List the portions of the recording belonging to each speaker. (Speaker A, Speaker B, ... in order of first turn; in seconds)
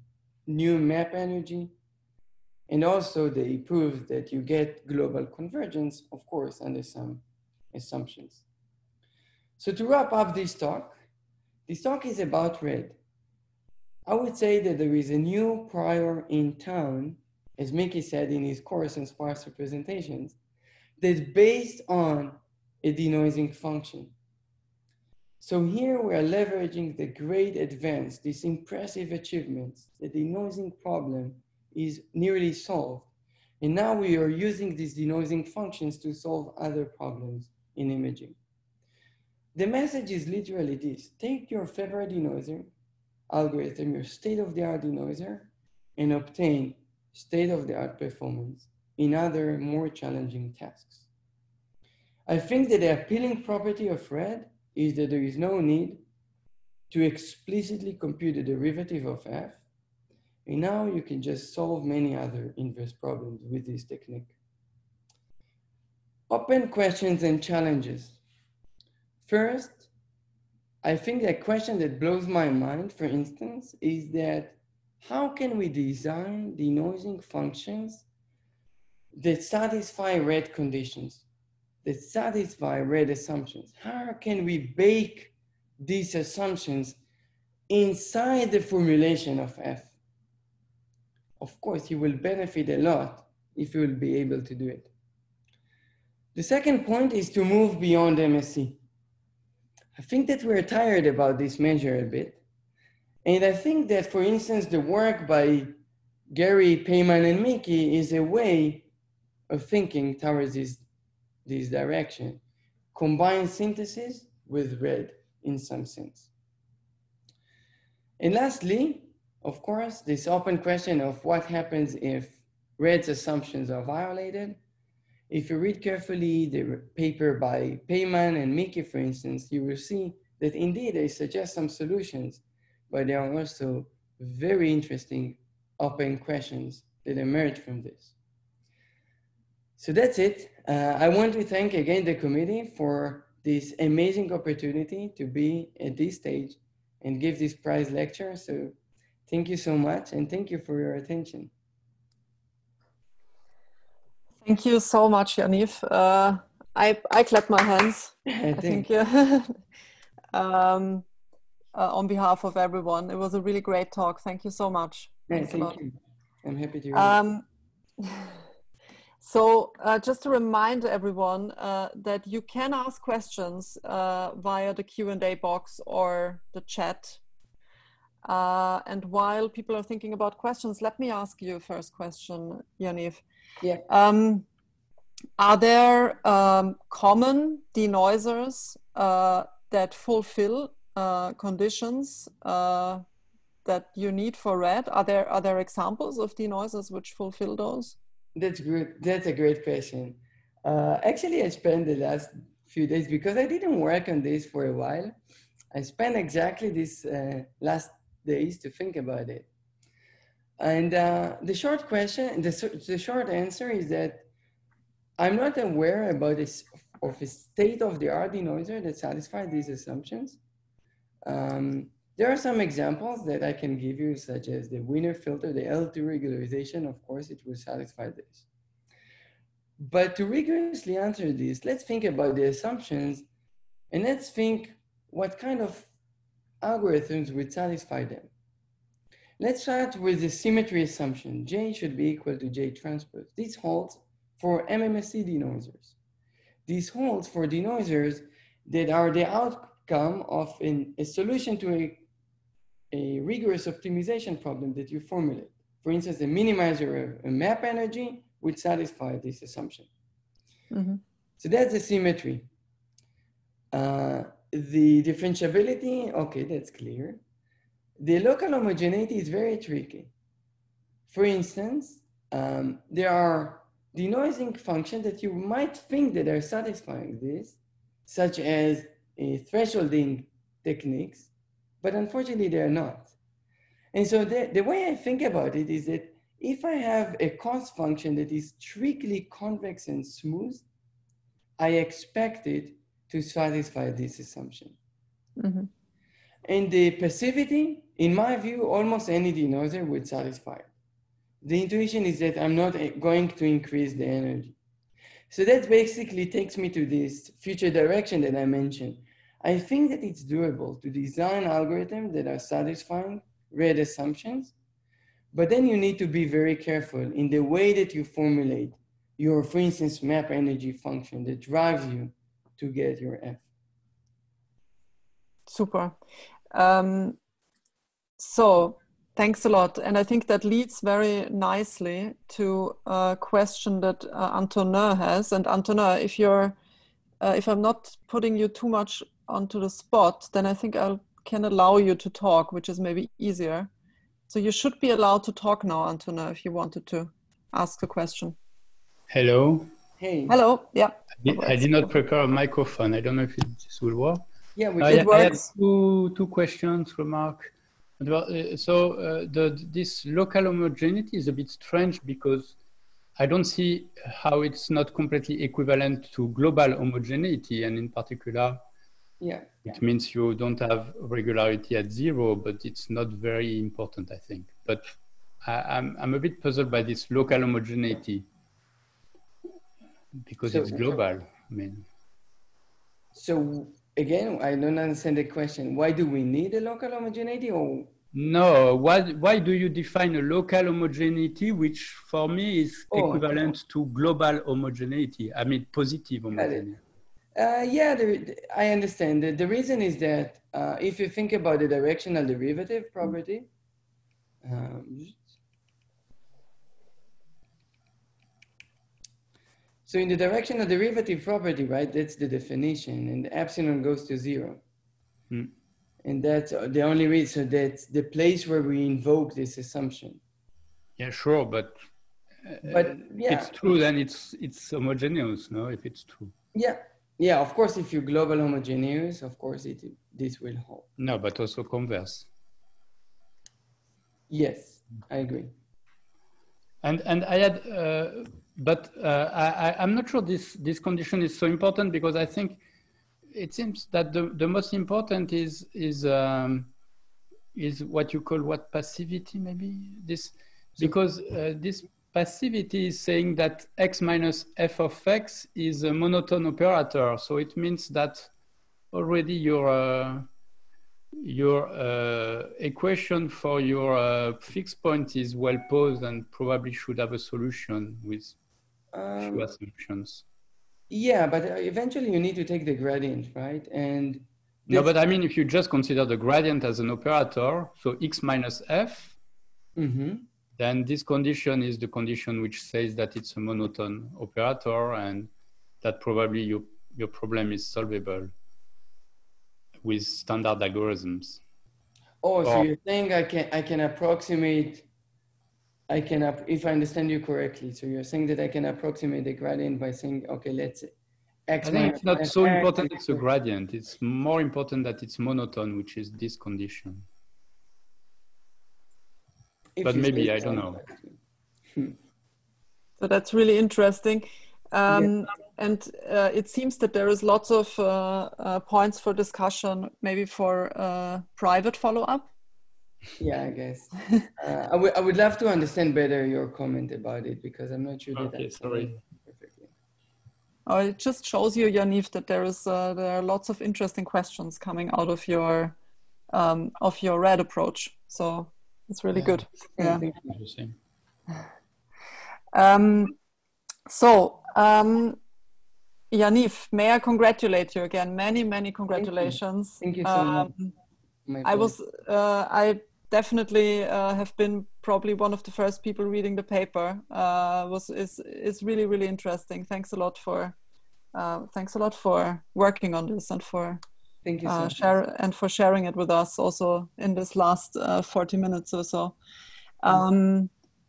Speaker A: 0.5-1.7, 2.7-8.4, 9.6-11.0, 11.7-13.0, 14.1-20.4, 21.0-24.1, 25.4-33.1, 33.6-38.4, 39.5-42.7, 43.3-51.1, 52.2-56.0, 56.9-59.6, 60.5-64.3, 66.3-68.2, 69.2-69.9, 70.8-78.0, 79.2-81.2, 81.8-87.0, 87.7-89.9, 91.4-94.9, 96.3-98.8, 99.9-102.4, 103.2-105.7, 106.3-108.9, 109.5-110.8, 111.5-112.4, 112.9-116.3, 118.2-124.6, 125.3-138.1, 139.8-148.7, 149.3-151.5, 158.2-158.9, 165.3-167.2, 198.3-205.1, 205.7-209.5, 210.6-214.2, 215.2-220.4, 221.2-228.5, 229.8-233.2, 233.9-235.9, 236.6-238.3, 239.4-245.9, 246.7-252.1, 252.9-259.9, 261.4-262.5, 263.7-267.2, 268.0-270.1, 271.1-281.3, 281.8-283.1, 283.9-290.6, 291.6-294.8, 296.4-300.7, 301.4-304.6, 305.3-314.5, 315.3-323.4, 350.0-350.4, 354.6-355.4, 369.2-369.8, 380.4-381.0, 383.1-387.9, 392.9-393.5, 396.3-396.7, 397.4-403.5, 404.4-405.4, 409.9-414.6, 416.0-420.2, 422.6-423.6, 426.5-430.9, 434.3-435.5, 468.9-469.5, 470.9-474.9, 479.8-480.2, 492.2-494.9, 495.9-500.9, 501.5-503.2, 509.8-511.2, 523.2-529.7, 539.8-540.3, 548.9-550.5, 551.2-551.7, 564.2-565.0
Speaker B: 154.4-159.5, 160.3-161.0, 161.7-165.8, 166.9-167.4, 168.0-168.3, 169.2-177.2, 178.2-183.2, 183.9-184.5, 185.4-193.0, 193.6-198.0, 260.7-261.0, 295.4-295.7, 325.5-326.0, 326.5-327.2, 328.2-336.6, 337.2-343.7, 344.3-348.4, 350.3-351.9, 354.9-355.4, 513.0-522.3, 530.6-535.8, 536.3-540.0, 542.5-543.2, 543.9-545.2, 546.1-550.7, 551.4-560.6, 561.1-563.8, 564.4-569.2, 569.8-570.5
Speaker C: 349.1-349.7, 351.2-354.3, 354.8-362.6, 363.2-368.6, 369.7-378.3, 380.2-381.8, 388.1-396.8, 421.0-421.7, 422.4-426.3, 431.0-432.3, 436.8-442.6, 443.3-446.7, 447.5-458.3, 458.9-460.3, 461.2-468.4, 469.2-470.2, 474.7-479.2, 480.6-485.3, 485.8-488.3, 489.8-491.4, 492.4-492.7, 501.6-507.0, 509.8-510.8, 528.1-529.0, 540.1-540.8